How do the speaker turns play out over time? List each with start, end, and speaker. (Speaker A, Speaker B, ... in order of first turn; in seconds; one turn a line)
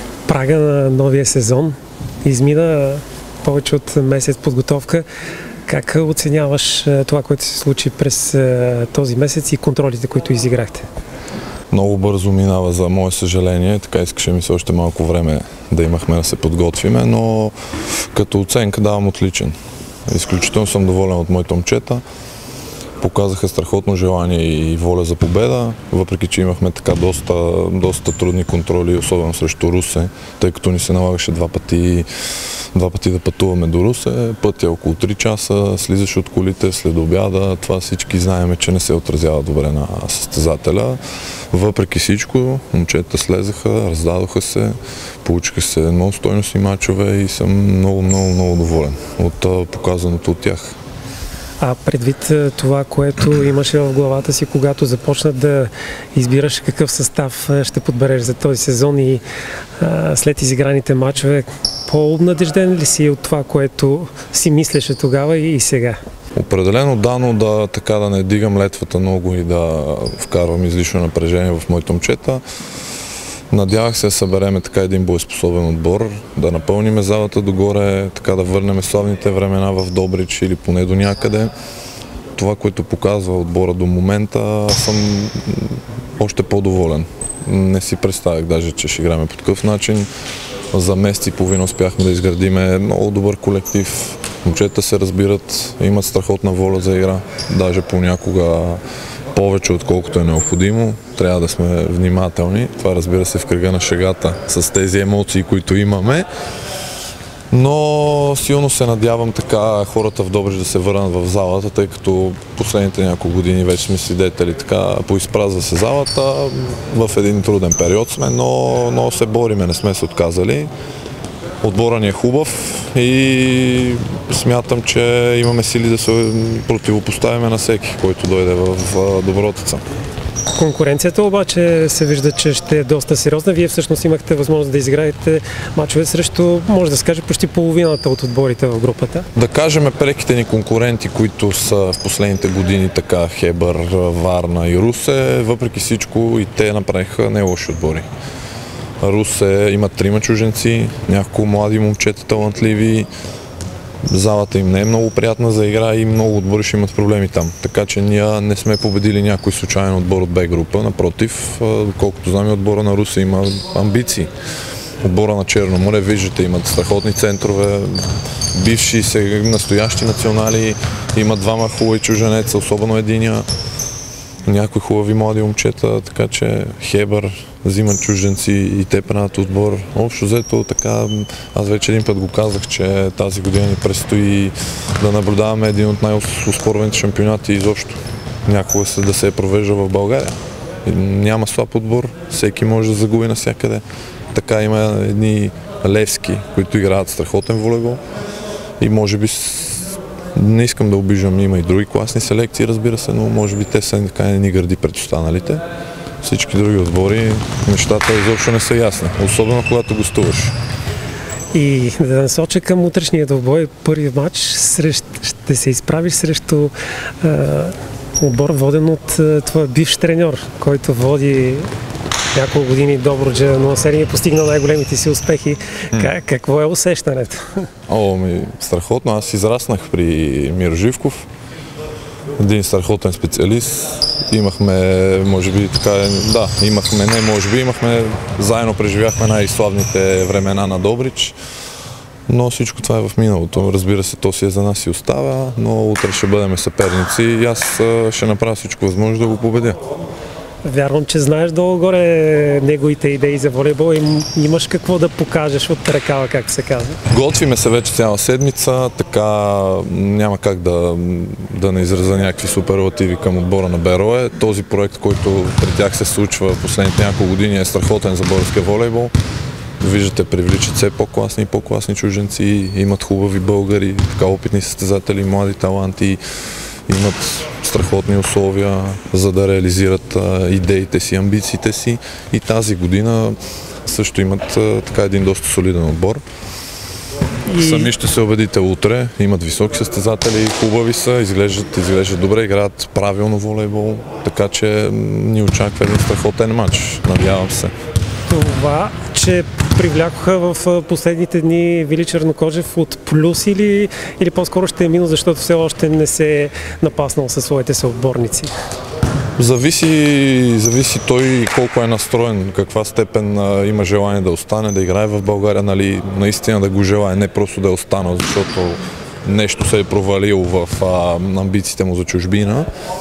Speaker A: 0.3-5.0
Speaker A: 5.7-10.9
Speaker B: 11.7-17.5
Speaker B: 18.1-19.6
Speaker B: 20.1-22.0
Speaker B: 23.0-32.1
Speaker B: 32.7-41.0
Speaker B: 41.5-50.8
Speaker A: 51.6-59.2
Speaker A: 59.8-66.0
Speaker B: 66.3-72.4
Speaker B: 73.5-81.5
Speaker B: 82.4-90.1
Speaker B: 90.7-98.8
Speaker B: 99.3-106.3
Speaker B: 107.5-120.7
Speaker B: 121.6-129.8
Speaker A: 130.6-139.3
Speaker B: 139.3-148.1
Speaker B: 149.0-153.1
Speaker B: 154.1-164.3
Speaker B: 165.0-173.5
Speaker B: 174.5-198.0
Speaker B: 198.8-205.6
Speaker B: 206.2-210.5
Speaker A: 211.5-221.7
Speaker A: 222.3-227.7
Speaker B: 227.9-231.3
Speaker B: 232.4-241.4
Speaker B: 242.3-249.8
Speaker A: 250.6-257.0
Speaker B: 257.1-269.1
Speaker B: 269.8-276.2
Speaker B: 276.9-286.2
Speaker A: 287.5-287.9
Speaker B: 287.6-297.7
Speaker A: 298.3-308.5
Speaker B: 309.4-322.7